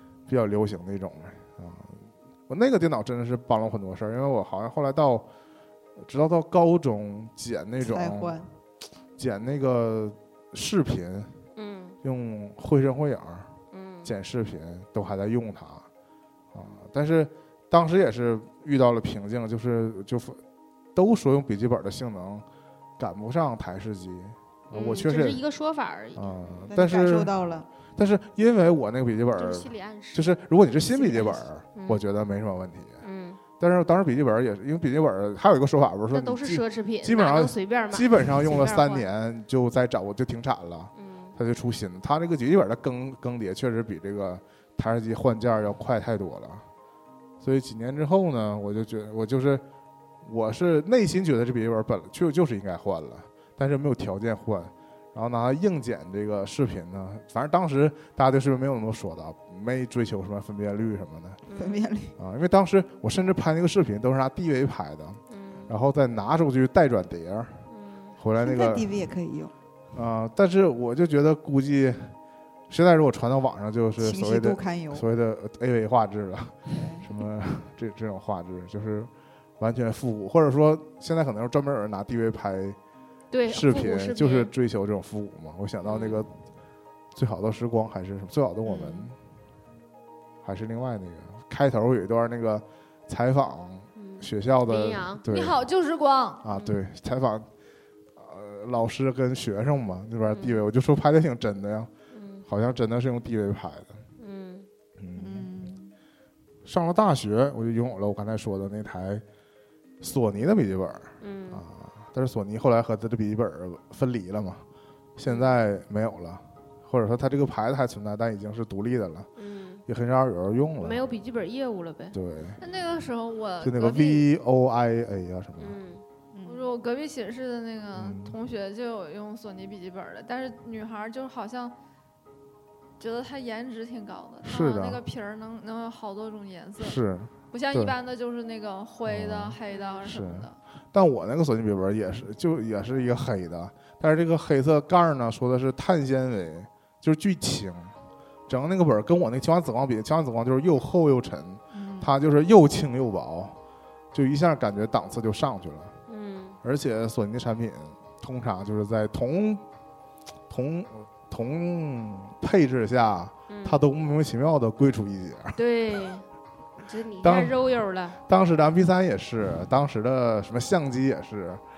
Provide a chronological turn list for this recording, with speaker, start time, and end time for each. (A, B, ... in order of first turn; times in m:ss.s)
0:00.3-0:05.3 A
0:06.0-0:08.4 A
0:07.8-0:08.5 B
0:09.2-0:11.3 A
0:11.6-0:12.0 C
0:12.0-0:13.5 A
0:13.7-0:14.1 C
0:14.0-0:15.8 A
0:16.5-0:20.4 A
0:20.9-0:22.4 A
0:23.0-0:25.4 A
0:24.7-0:26.7 C
0:26.2-0:27.3 A
0:26.7-0:27.7 B
0:28.0-0:33.0 A
0:29.3-0:30.3 C
0:30.8-0:32.0 C
0:33.0-0:33.4 C
0:33.6-0:46.6 A
0:36.1-0:39.0 C
0:41.0-0:41.3 C
0:47.4-0:49.6 A
0:50.2-1:01.4 A
1:01.5-1:01.8 C
1:01.5-1:02.1 B
1:02.2-1:07.6 A
1:05.3-1:05.7 C
1:07.7-1:08.2 C
1:08.2-1:08.9 A
1:08.4-1:09.5 B
1:09.9-1:12.1 A
1:12.7-1:22.8 A
1:14.0-1:15.0 B
1:16.7-1:17.0 B
1:23.3-1:24.5 C
1:23.5-1:26.3 A
1:25.8-1:26.2 C
1:27.1-1:29.2 A
1:28.6-1:29.1 C
1:30.4-1:35.6 A
1:34.0-1:35.2 C
1:35.3-1:36.4 D
1:36.4-1:37.5 A
1:36.5-1:36.8 C
1:38.2-1:41.9 A
1:40.3-1:40.6 C
1:42.1-1:42.4 C
1:42.5-1:44.0 A
1:44.2-1:44.7 C
1:45.0-1:45.5 A
1:45.2-1:45.9 B
1:46.6-1:49.2 A
1:50.0-1:54.6 A
1:51.2-1:51.6 C
1:55.2-1:59.3 A
1:55.2-1:55.6 C
1:59.4-1:59.8 C
1:59.9-2:01.0 A
2:00.8-2:02.1 C
2:02.1-2:02.6 A
2:02.6-2:04.2 D
2:03.6-2:05.8 A
2:05.6-2:06.0 C
2:06.3-2:06.7 B
2:06.5-2:11.7 D
2:07.9-2:08.4 A
2:13.0-2:17.0 D
2:14.4-2:15.0 A
2:16.8-2:18.0 A
2:17.5-2:20.6 D
2:19.0-2:27.9 A
2:19.7-2:20.0 C
2:28.5-2:33.6 A
2:31.7-2:32.1 B
2:34.1-2:35.9 A
2:36.1-2:36.6 C
2:36.6-2:39.6 A
2:40.5-2:45.6 A
2:43.5-2:43.8 C
2:45.6-2:46.2 C
2:46.8-2:48.2 C
2:47.2-2:47.7 A
2:48.2-2:51.6 A